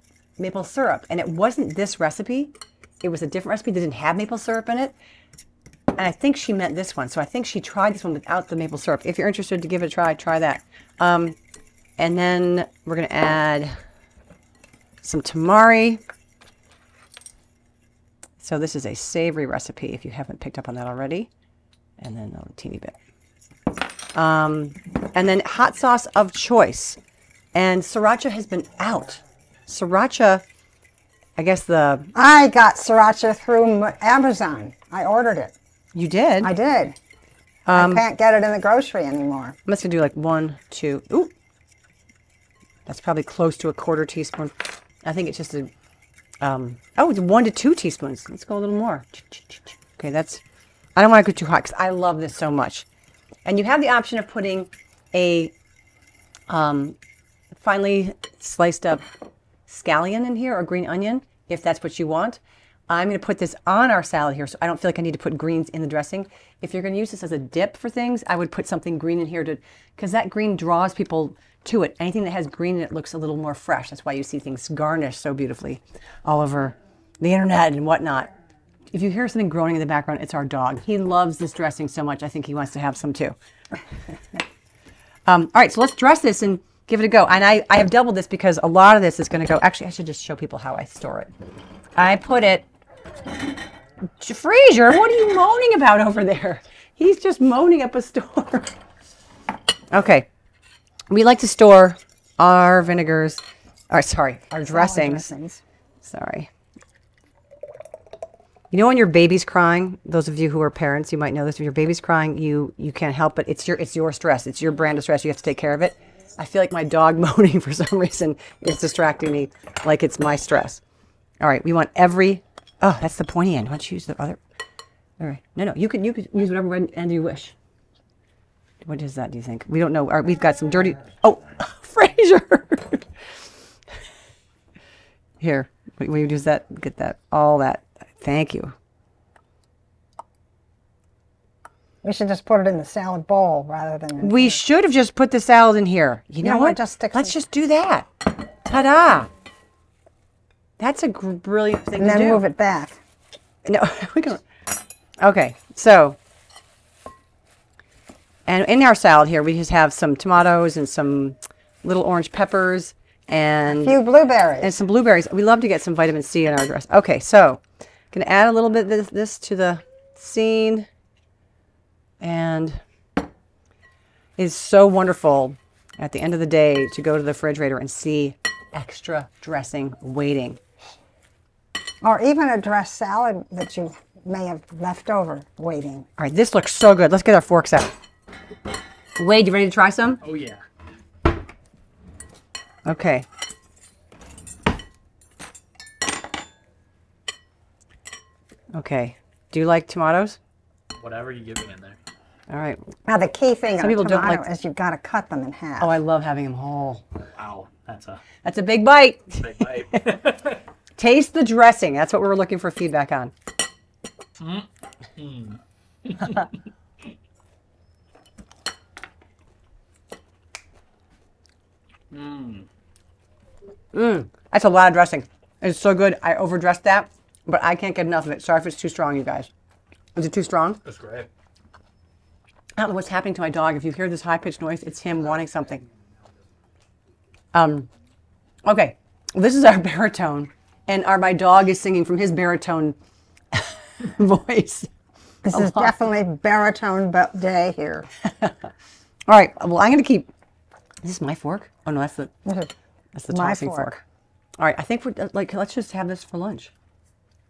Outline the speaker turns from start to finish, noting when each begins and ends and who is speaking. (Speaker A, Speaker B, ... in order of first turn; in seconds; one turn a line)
Speaker A: 0.4-5.0
Speaker A: 6.0-11.4
Speaker A: 12.0-13.7
Speaker A: 15.0-16.0
Speaker A: 18.4-21.3
Speaker A: 22.0-22.9
Speaker A: 24.1-27.0
Speaker A: 27.5-30.4
Speaker A: 31.4-32.1
Speaker B: 32.1-35.5
Speaker A: 36.0-36.5
Speaker B: 36.4-37.0
Speaker A: 37.7-38.0
Speaker B: 37.7-39.6
Speaker A: 39.7-41.3
Speaker A: 42.9-45.7
Speaker A: 46.4-50.4
Speaker A: 51.0-52.9
Speaker A: 53.5-55.5
Speaker A: 56.5-57.0
Speaker A: 57.5-59.0
Speaker A: 59.7-78.3
Speaker A: 78.9-83.4
Speaker A: 85.3-91.3
Speaker A: 92.0-92.7
Speaker A: 94.2-98.7
Speaker A: 99.9-100.3
Speaker A: 101.1-105.3
Speaker B: 104.7-105.6
Speaker A: 106.0-106.5
Speaker A: 108.7-120.8
Speaker A: 121.4-124.4
Speaker A: 125.2-127.5
Speaker A: 128.8-133.1
Speaker A: 135.4-138.7
Speaker B: 142.0-144.6
Speaker A: 144.2-148.1
Speaker B: 146.4-147.3
Speaker A: 148.6-149.3
Speaker A: 150.8-152.4
Speaker B: 152.0-153.0
Speaker A: 153.7-154.4
Speaker A: 155.2-156.2
Speaker A: 158.5-164.0
Speaker B: 163.7-164.8
Speaker A: 164.6-170.9
Speaker A: 172.2-172.8
Speaker A: 174.4-180.6
Speaker B: 182.0-186.1
Speaker A: 186.2-187.9
Speaker A: 189.2-190.2
Speaker C: 190.2-190.6
Speaker A: 192.9-193.3
Speaker A: 198.7-200.4
Speaker C: 201.0-202.0
Speaker A: 202.5-202.8
Speaker B: 203.1-205.9
Speaker A: 203.8-204.4
Speaker A: 205.8-207.0
Speaker C: 207.4-208.2
Speaker A: 208.4-210.2
Speaker C: 209.4-210.6
Speaker A: 211.0-213.3
Speaker C: 214.4-216.5
Speaker C: 222.1-222.7
Speaker A: 223.9-229.5
Speaker A: 230.2-230.8
Speaker C: 230.9-231.3
Speaker A: 232.8-235.8
Speaker A: 237.5-237.9
Speaker A: 238.7-243.0
Speaker A: 243.5-244.9
Speaker B: 245.4-248.1
Speaker A: 245.5-245.9
Speaker A: 249.3-250.3
Speaker A: 251.0-252.3
Speaker B: 252.5-252.7
Speaker A: 253.2-254.0
Speaker B: 253.3-254.0
Speaker A: 254.6-256.7